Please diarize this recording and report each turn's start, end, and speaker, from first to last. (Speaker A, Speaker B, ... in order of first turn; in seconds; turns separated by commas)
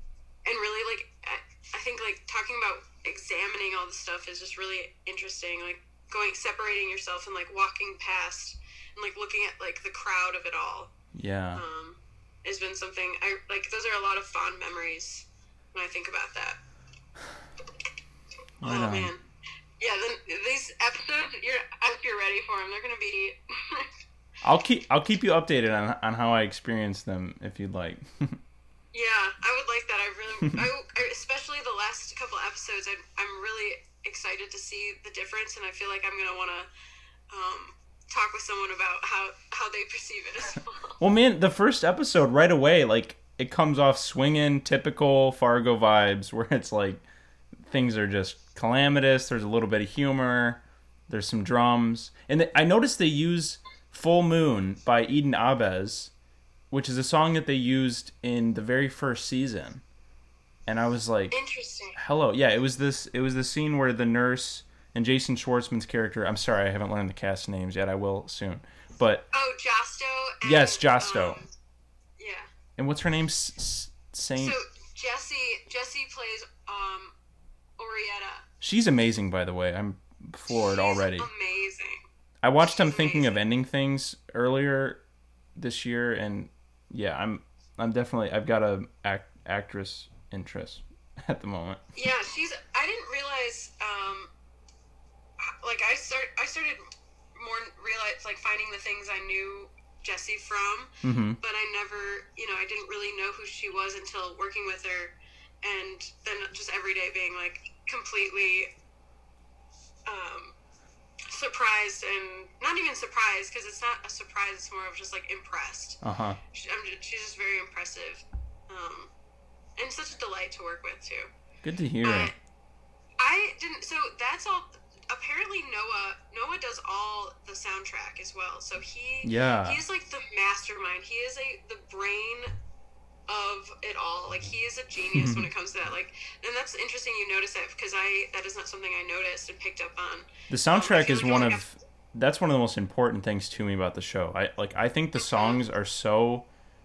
Speaker A: 0.4-10.9, Speaker B: 11.1-11.6, Speaker A: 11.5-16.6, Speaker B: 18.6-19.1, Speaker A: 18.6-19.2, Speaker A: 19.8-23.9, Speaker B: 24.4-28.4, Speaker A: 28.9-36.7, Speaker A: 37.3-41.0, Speaker B: 41.0-47.0, Speaker B: 47.6-56.1, Speaker B: 56.7-59.8, Speaker B: 60.6-61.4, Speaker A: 61.3-62.0, Speaker B: 61.9-69.2, Speaker A: 69.3-71.5, Speaker B: 70.4-71.4, Speaker A: 72.2-72.5, Speaker B: 72.8-74.5, Speaker A: 74.3-77.1, Speaker A: 77.8-78.5, Speaker B: 78.6-81.3, Speaker A: 80.5-82.0, Speaker B: 82.4-85.0, Speaker A: 82.7-83.4, Speaker B: 85.5-91.8, Speaker A: 92.0-94.3, Speaker A: 95.4-96.8, Speaker A: 97.3-108.7, Speaker B: 101.0-101.4, Speaker A: 110.1-110.5, Speaker A: 111.3-116.0, Speaker B: 116.0-116.4, Speaker A: 116.5-119.1, Speaker A: 119.8-121.3, Speaker B: 121.6-122.3, Speaker A: 122.0-122.3, Speaker A: 123.2-132.5, Speaker B: 129.2-129.8, Speaker A: 133.3-141.6, Speaker B: 135.1-135.5, Speaker B: 140.5-146.5, Speaker A: 145.2-145.6